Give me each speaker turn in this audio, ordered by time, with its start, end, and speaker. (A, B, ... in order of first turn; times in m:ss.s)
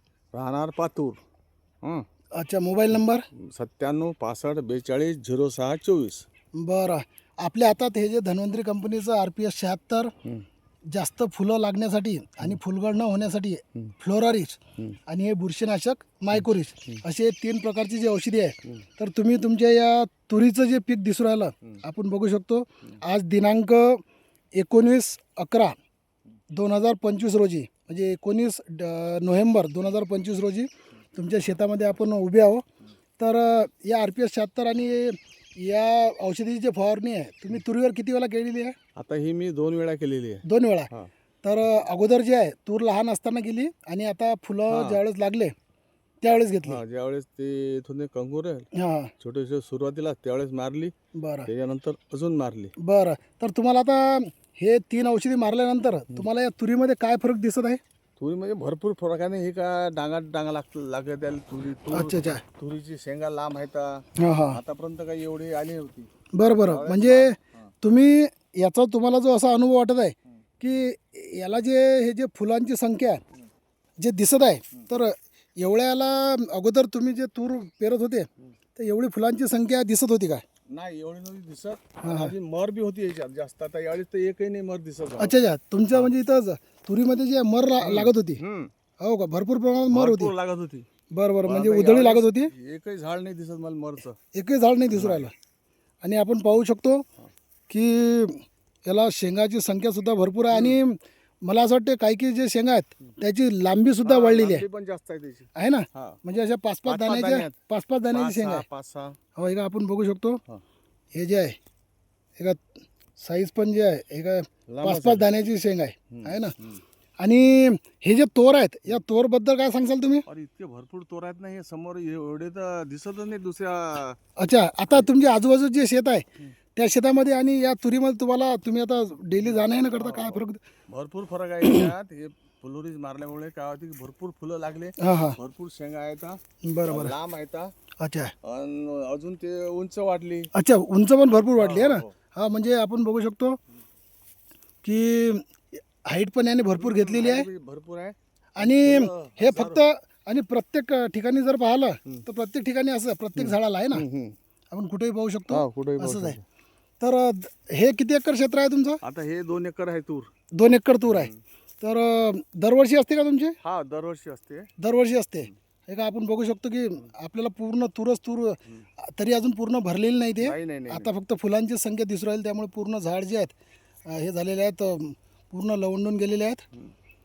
0:00.3-0:01.2 A
0:02.4-0:03.2 B
0:03.3-0:06.2 A
0:06.5-0:10.1 B
0:10.9-0:24.0 B
0:24.6-0:25.8 B
0:26.5-0:32.6 B
0:33.2-0:38.7 B
0:39.0-0:41.1 A
0:40.4-0:40.9 B
0:41.4-0:45.5 B
0:44.7-0:45.0 A
0:46.2-0:46.8 B
0:46.6-0:48.7 A
0:48.7-0:49.1 B
0:49.2-0:50.9 A
0:51.1-0:51.5 B
0:51.4-0:52.7 A
0:52.8-0:57.8 B
0:58.2-1:06.1 A
1:01.9-1:02.4 B
1:04.2-1:04.6 B
1:06.3-1:13.2 B
1:06.6-1:07.7 A
1:14.0-1:20.4 B
1:20.7-1:25.3 A
1:22.0-1:22.3 B
1:25.2-1:28.4 B
1:27.8-1:28.7 A
1:29.0-1:30.3 B
1:29.9-1:30.8 A
1:31.1-1:32.5 B
1:31.4-1:34.2 A
1:34.3-1:35.3 B
1:34.9-1:35.3 A
1:36.0-1:37.0 B
1:37.7-1:44.6 B
1:40.5-1:40.8 A
1:44.0-1:46.2 A
1:45.5-1:48.6 B
1:46.8-1:47.6 A
1:48.1-1:49.2 A
1:49.3-1:50.4 B
1:51.1-1:51.6 B
1:52.4-1:52.6 B
1:53.2-1:56.5 B
1:54.7-1:55.3 A
1:56.1-1:56.8 A
1:57.2-2:00.2 B
2:00.3-2:04.2 A
2:04.4-2:10.6 B
2:09.4-2:17.7 A
2:15.0-2:15.4 B
2:16.6-2:17.1 B
2:18.0-2:18.3 B
2:18.4-2:20.5 A
2:20.5-2:23.6 B
2:21.6-2:22.1 A
2:24.8-2:27.5 B
2:26.8-2:29.8 A
2:28.6-2:34.0 B
2:33.3-2:34.4 A
2:34.7-2:36.4 B
2:35.5-2:36.4 A
2:37.0-2:39.0 B
2:39.0-2:40.3 A
2:40.5-2:43.6 B
2:41.1-2:41.4 A
2:43.6-2:44.7 A
2:44.8-2:53.5 B
2:50.4-2:51.1 A
2:54.1-2:56.6 B